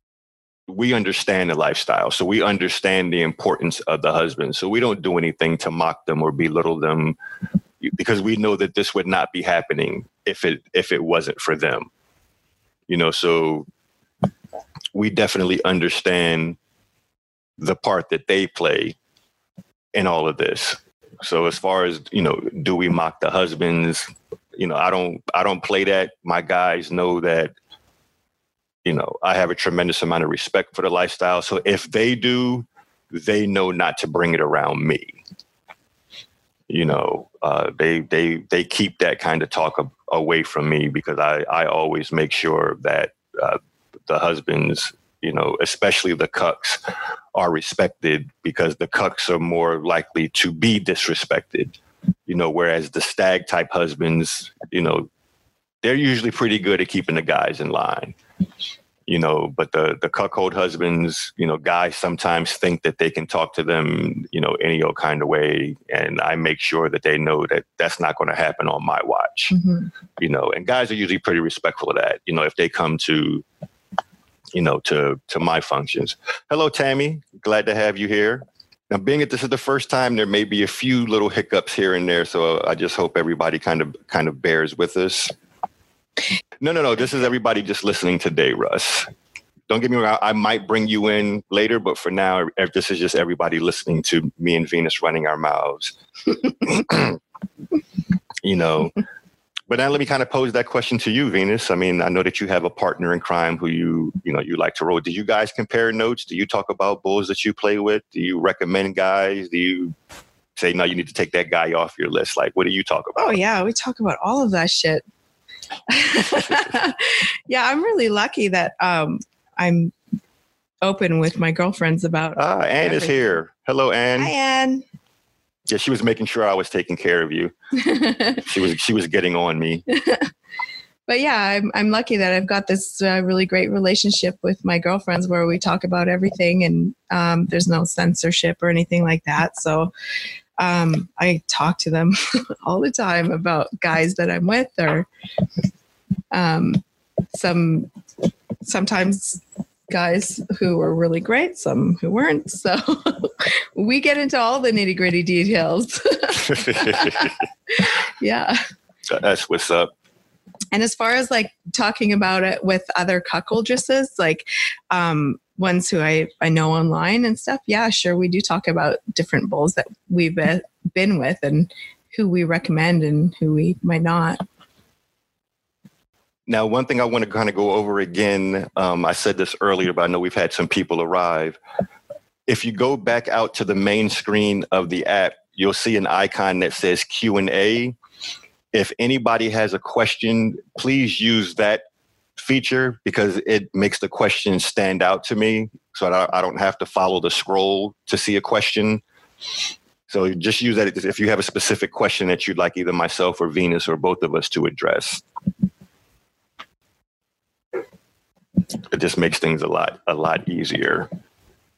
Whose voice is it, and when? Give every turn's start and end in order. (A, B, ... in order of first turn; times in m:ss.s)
0:00.7-0:07.2 A
0:07.8-0:11.9 A
0:12.9-0:13.7 A
0:14.9-0:16.6 A
0:17.6-0:19.0 A
0:19.9-0:27.5 A
0:28.8-0:35.2 A
0:36.7-0:46.8 A
0:47.3-0:51.8 A
0:52.3-0:55.1 A
0:55.8-0:58.2 A
0:59.1-1:09.5 A
1:09.5-1:09.9 B
1:10.2-1:13.4 A
1:14.5-1:25.3 A
1:26.6-1:29.1 A
1:29.7-1:36.0 A
1:36.6-1:37.2 A
1:38.4-1:39.0 A
1:39.7-1:50.0 A
1:50.6-1:53.4 A
1:53.2-1:55.0 B
1:55.9-1:59.9 B
2:00.8-2:03.2 B
2:02.3-2:04.3 A
2:04.2-2:04.8 B
2:05.7-2:07.5 A
2:07.8-2:08.4 B
2:08.4-2:09.8 A
2:09.9-2:10.3 B
2:11.1-2:19.9 B
2:20.6-2:25.1 B
2:26.3-2:26.8 B
2:27.3-2:27.9 B
2:28.6-2:38.6 B
2:36.5-2:37.3 A
2:39.1-2:39.9 A
2:40.7-2:54.4 B
2:56.5-3:01.6 A
3:02.5-3:08.0 A
3:08.7-3:11.8 A
3:12.4-3:19.0 A
3:20.1-3:25.2 A
3:28.9-3:31.1 A